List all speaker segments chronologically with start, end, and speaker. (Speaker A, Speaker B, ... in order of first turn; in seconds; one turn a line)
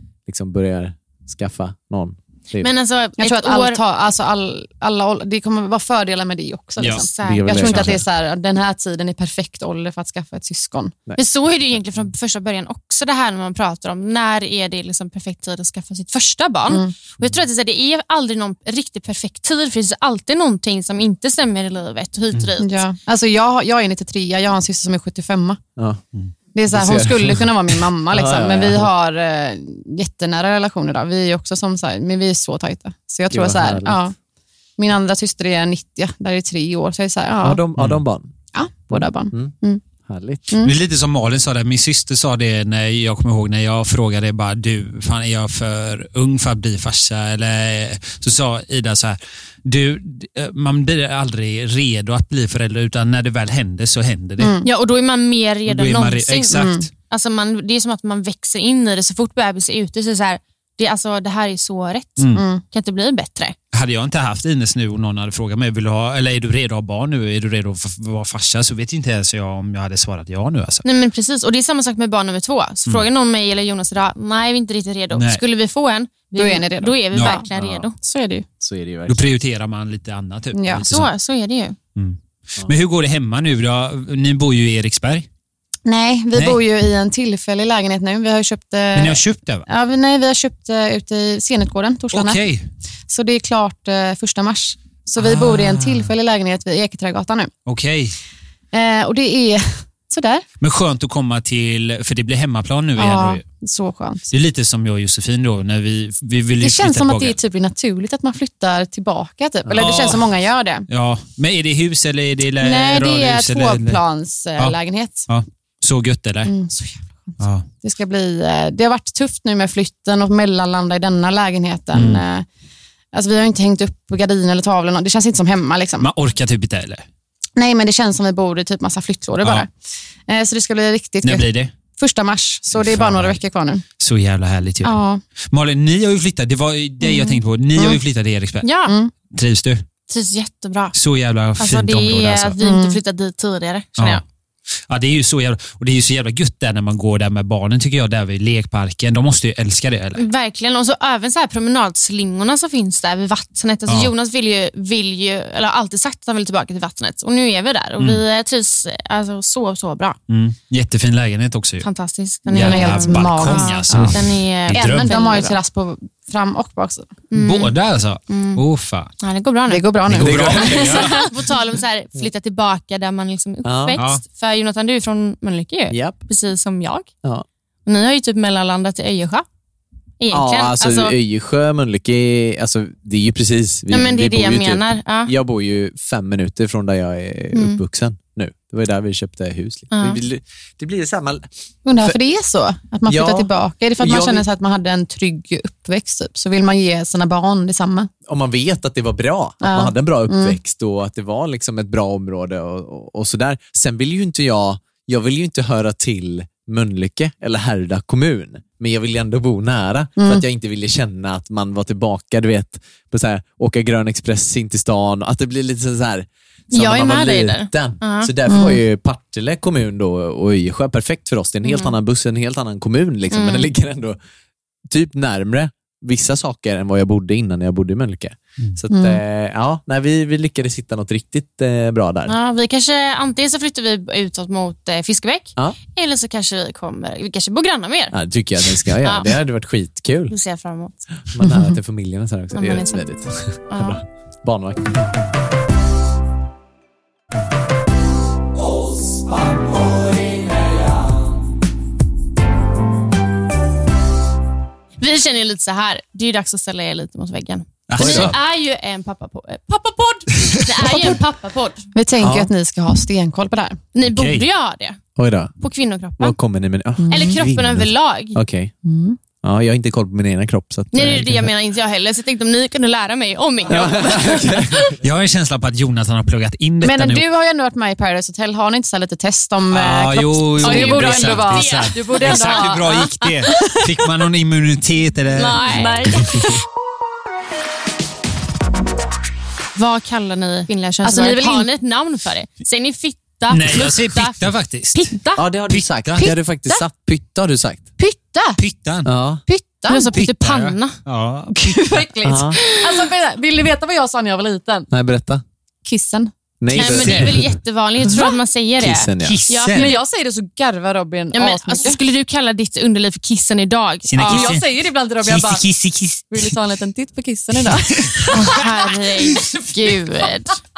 Speaker A: 0.3-2.7
Speaker B: 2.6-3.8
Speaker C: 3.2-11.0
Speaker D: 6.8-7.1
Speaker B: 6.9-7.9
Speaker A: 7.2-8.0
Speaker B: 11.2-22.9
Speaker C: 16.7-16.9
Speaker C: 22.6-25.6
Speaker C: 26.5-34.1
Speaker A: 26.7-28.9
Speaker A: 33.3-34.0
Speaker C: 34.8-37.6
Speaker A: 37.4-38.3
Speaker C: 38.5-39.8
Speaker A: 38.9-39.5
Speaker A: 40.0-40.5
Speaker D: 40.6-54.6
Speaker C: 54.4-54.7
Speaker B: 54.6-63.5
Speaker D: 55.7-56.9
Speaker C: 56.5-56.9
Speaker D: 62.2-62.4
Speaker C: 62.3-62.6
Speaker D: 63.7-70.8
Speaker B: 70.8-78.0
Speaker D: 75.1-75.4
Speaker C: 76.4-77.5
Speaker D: 77.1-77.4
Speaker A: 77.6-77.9
Speaker C: 78.0-78.5
Speaker A: 78.6-79.3
Speaker D: 79.1-81.1
Speaker C: 80.5-80.9
Speaker B: 80.8-81.8
Speaker D: 82.0-85.3
Speaker C: 85.8-92.4
Speaker D: 86.3-86.6
Speaker D: 88.9-89.7
Speaker D: 92.1-92.7
Speaker C: 93.1-97.5
Speaker D: 95.2-96.1
Speaker D: 97.7-98.1
Speaker C: 98.7-100.4
Speaker D: 100.6-103.4
Speaker C: 103.0-104.2
Speaker D: 104.3-107.4
Speaker C: 106.6-110.9
Speaker D: 109.7-110.3
Speaker D: 110.9-114.0
Speaker C: 112.6-115.2
Speaker D: 115.3-116.5
Speaker C: 116.5-122.5
Speaker D: 117.4-117.7
Speaker D: 121.9-122.2
Speaker C: 123.1-126.1
Speaker D: 126.0-127.0
Speaker C: 127.6-129.7
Speaker D: 129.4-129.7
Speaker C: 130.3-133.8
Speaker D: 131.2-131.7
Speaker D: 132.7-133.4
Speaker D: 134.0-134.9
Speaker C: 134.8-135.2
Speaker D: 135.5-138.7
Speaker C: 137.0-138.0
Speaker B: 138.6-138.9
Speaker D: 139.3-139.8
Speaker B: 140.1-140.9
Speaker D: 140.9-142.6
Speaker B: 141.6-144.2
Speaker C: 142.6-143.0
Speaker D: 144.9-150.2
Speaker B: 150.2-160.2
Speaker D: 160.3-161.9
Speaker B: 161.8-165.6
Speaker D: 162.5-165.2
Speaker C: 162.5-164.2
Speaker C: 164.7-167.1
Speaker B: 167.3-167.7
Speaker D: 167.4-169.1
Speaker B: 168.3-168.6
Speaker B: 169.2-169.9
Speaker C: 169.7-171.3
Speaker D: 170.1-171.2
Speaker A: 170.1-171.1
Speaker B: 170.5-177.1
Speaker A: 173.6-174.0
Speaker D: 173.9-174.2
Speaker A: 175.9-176.2
Speaker B: 177.9-179.4
Speaker B: 180.2-181.1
Speaker A: 180.3-192.2
Speaker B: 183.9-185.3
Speaker B: 187.5-187.8
Speaker B: 189.9-190.2
Speaker C: 191.8-198.1
Speaker A: 193.1-194.4
Speaker A: 198.2-224.2
Speaker C: 199.6-200.6
Speaker C: 210.2-210.4
Speaker B: 216.7-218.3
Speaker C: 218.5-218.8
Speaker B: 221.6-221.9
Speaker B: 223.3-223.7
Speaker A: 224.9-232.3
Speaker C: 228.9-229.2
Speaker B: 232.3-238.2
Speaker A: 238.1-240.3
Speaker B: 238.8-239.3
Speaker B: 240.3-241.1
Speaker A: 241.3-245.0
Speaker C: 241.4-241.7
Speaker B: 242.5-243.0
Speaker B: 243.7-244.0
Speaker B: 255.0-261.9
Speaker D: 257.9-258.4
Speaker A: 257.9-258.4
Speaker C: 260.8-261.2
Speaker C: 261.9-263.8
Speaker A: 262.2-262.5
Speaker B: 263.9-265.0
Speaker D: 264.0-264.4
Speaker A: 265.1-265.5
Speaker B: 265.6-266.4
Speaker A: 266.2-268.7
Speaker C: 267.0-267.4
Speaker B: 267.1-268.4
Speaker C: 268.9-269.2
Speaker A: 269.4-271.5
Speaker B: 270.9-274.8
Speaker A: 273.7-275.0
Speaker D: 275.0-277.2
Speaker C: 276.8-283.9
Speaker D: 279.7-285.9
Speaker B: 280.6-283.0
Speaker B: 285.3-286.5
Speaker C: 285.6-286.6
Speaker B: 289.7-294.4
Speaker C: 291.0-291.7
Speaker D: 293.5-295.1
Speaker B: 294.9-295.4
Speaker A: 295.4-297.9
Speaker D: 295.7-296.3
Speaker C: 296.2-296.9
Speaker C: 298.0-298.6
Speaker D: 298.6-299.1
Speaker A: 299.1-299.4
Speaker C: 299.5-300.1
Speaker B: 299.9-301.0
Speaker D: 300.1-302.0
Speaker C: 301.5-304.9
Speaker A: 302.2-302.6
Speaker B: 302.6-303.0
Speaker A: 304.9-305.4
Speaker C: 305.9-306.8
Speaker A: 306.6-307.4
Speaker B: 306.7-310.0
Speaker A: 308.8-309.4
Speaker D: 309.2-310.0
Speaker C: 309.7-312.0
Speaker B: 311.3-314.6
Speaker D: 314.1-314.7
Speaker C: 314.2-315.6
Speaker D: 315.2-316.6
Speaker C: 316.3-319.7
Speaker D: 317.6-318.4
Speaker B: 318.3-320.6